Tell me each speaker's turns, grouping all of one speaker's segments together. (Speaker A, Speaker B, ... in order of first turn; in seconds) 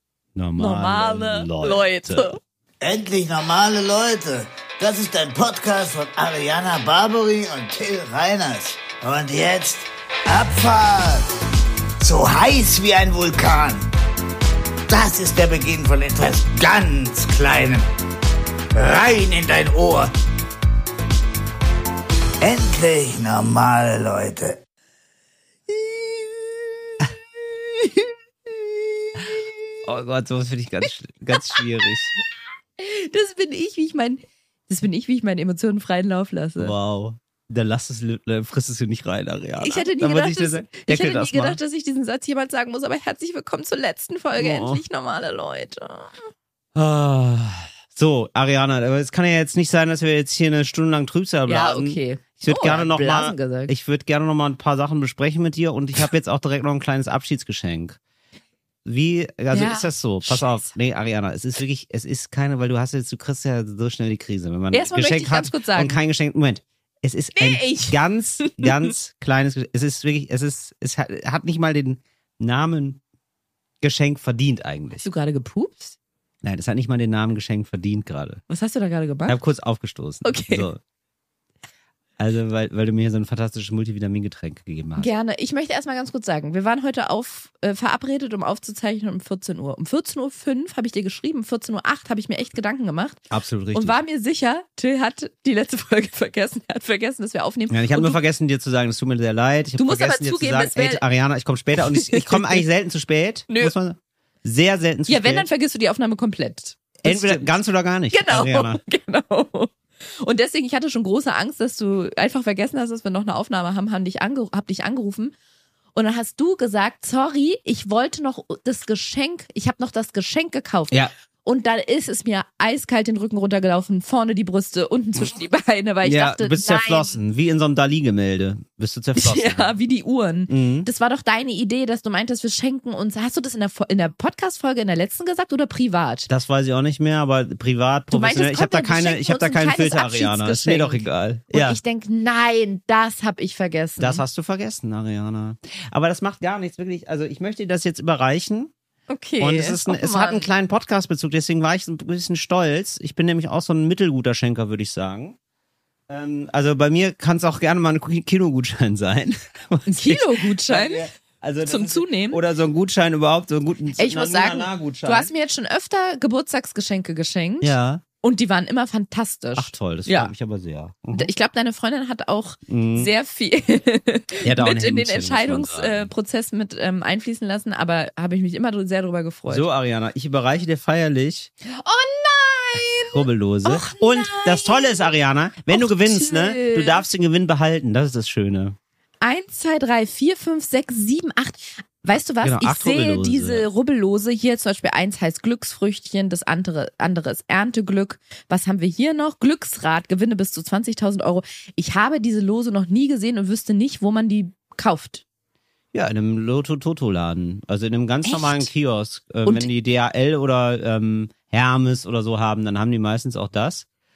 Speaker A: 0.3-2.4, 29.9-32.2, 36.6-41.6, 44.4-44.8, 46.8-58.0, 58.9-73.0, 73.8-75.1, 76.4-78.4, 79.3-80.8, 82.2-85.1, 93.3-94.0, 97.7-105.5, 107.0-108.8, 126.0-129.7, 130.5-130.9, 136.3-141.8, 144.0-148.7, 149.4-155.4, 156.1-165.3, 167.6-168.0, 169.6-171.3, 172.7-173.1, 174.4-176.1, 179.5-181.5, 183.1-188.8, 192.4-193.7, 205.9-213.8
Speaker B: 0.6-2.4, 31.4-31.6, 32.8-36.7, 39.6-46.3, 51.5-53.7, 59.5-60.5, 64.7-66.0, 67.4-68.9, 75.0-75.9, 78.5-79.4, 80.2-80.7, 85.0-98.2, 99.8-101.0, 101.8-102.6, 103.5-103.7, 105.1-107.6, 108.1-115.3, 116.0-127.2, 129.2-136.3, 138.1-144.2, 149.1-150.5, 159.9-161.1, 161.6-162.4, 164.0-170.3, 171.1-179.7, 181.7-185.1, 185.7-187.0, 189.2-205.2, 208.2-208.7, 209.4-209.7
Speaker C: 2.8-11.3, 12.0-13.9, 14.9-17.9, 18.7-20.1, 22.4-24.6